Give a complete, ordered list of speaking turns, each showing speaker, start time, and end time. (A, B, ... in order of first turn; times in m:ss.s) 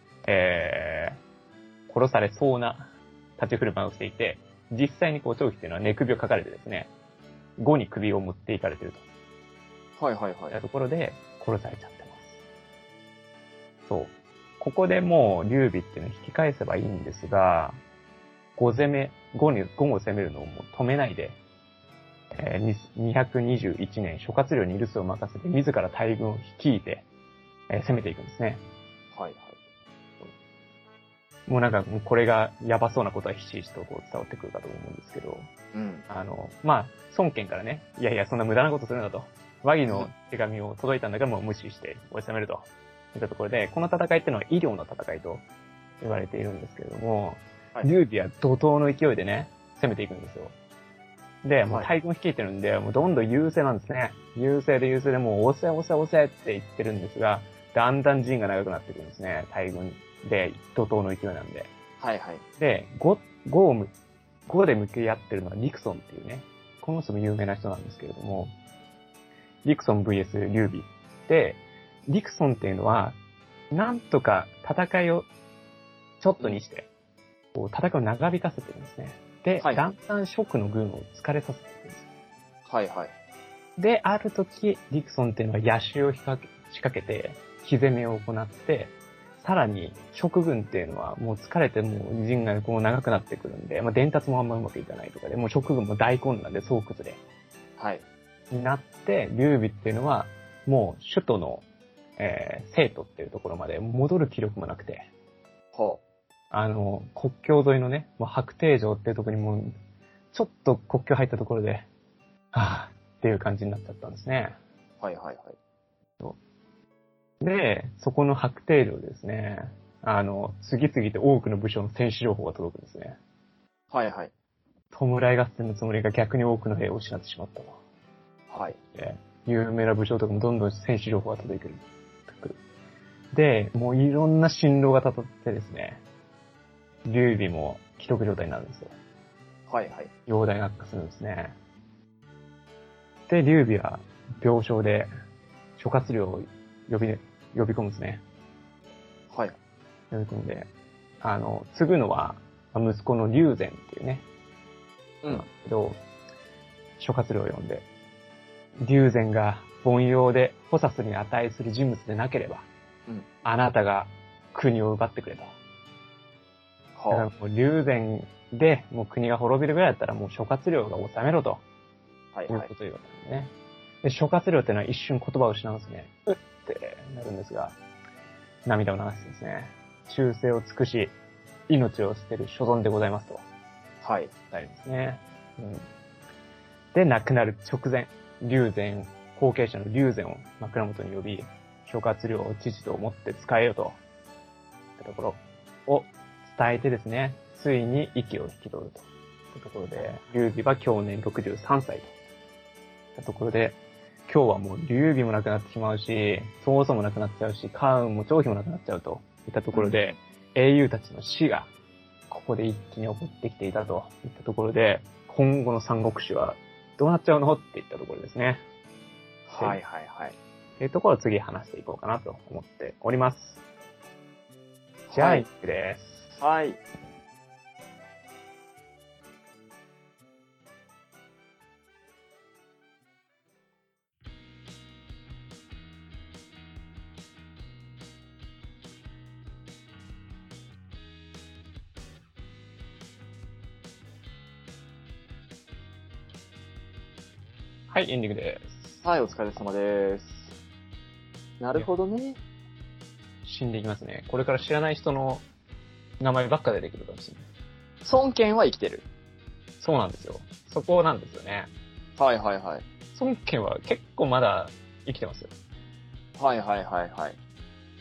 0:00.2-0:01.2 A
0:01.9-0:06.9 A
0:07.6-0:09.0 A
0:10.0-0:10.6 B
0:10.5-0:12.4 A
0:13.9-0:17.8 A
0:18.6-0:21.4 A
0:22.3-0:27.1 A
0:27.7-0:28.6 A
0:29.2-0:29.6 B
0:31.5-0:35.5 A
0:35.7-0:36.1 B
0:36.1-0:45.4 A
0:46.0-0:50.5 A
0:51.4-1:01.7 A
1:02.0-1:02.4 B
1:02.6-1:03.9 A
1:04.5-1:08.5 A
1:09.6-1:13.2 A
1:13.7-1:15.3 A
1:16.2-1:16.9 A
1:17.5-1:22.1 A
1:22.7-1:23.1 B
1:23.8-1:37.2 A
1:37.8-1:38.0 B
1:38.5-1:41.6 A
1:42.2-1:45.1 A
1:45.7-1:46.0 B
1:46.5-1:49.7 A
1:50.3-1:51.9 A
1:52.5-1:54.6 A
1:55.0-1:55.6 B
1:57.4-2:03.2 A
2:03.9-2:04.3 B
2:04.9-2:07.8 A
2:08.5-2:08.8 B
2:08.9-2:12.6 A
2:13.3-2:16.0 A
2:17.0-2:18.9 A
2:19.7-2:20.1 B
2:20.3-2:21.6 A
2:23.3-2:25.1 A
2:25.8-2:28.2 A
2:29.3-2:29.6 B
2:30.1-2:30.7 A
2:31.2-2:34.2 A
2:35.3-2:36.0 A
2:37.0-2:37.8 A
2:38.8-2:42.7 A
2:43.4-2:45.5 A
2:47.0-2:47.3 B
2:47.1-2:51.6 A
2:52.3-2:52.7 B
2:52.5-2:53.5 A
2:54.0-2:57.8 A
2:58.6-3:01.1 A
3:01.7-3:03.4 A
3:04.0-3:04.3 B
3:04.5-3:05.9 A
3:06.9-3:14.0 A
3:15.0-3:22.1 A
3:23.2-3:31.7 A
3:29.7-3:30.2 B
3:32.3-3:38.6 A
3:39.5-3:40.4 B
3:40.8-3:43.6 A
3:45.1-3:45.5 B
3:45.1-3:46.2 A
3:46.4-3:46.8 B
4:07.9-4:09.0 A
4:09.0-4:10.6 B
4:11.6-4:12.4 B
4:13.4-4:15.4 A
4:16.2-4:17.5 A
4:18.0-4:19.0 B
4:19.8-4:21.7 A
4:22.2-4:22.8 B
4:23.1-4:25.5 A
4:26.4-4:27.4 B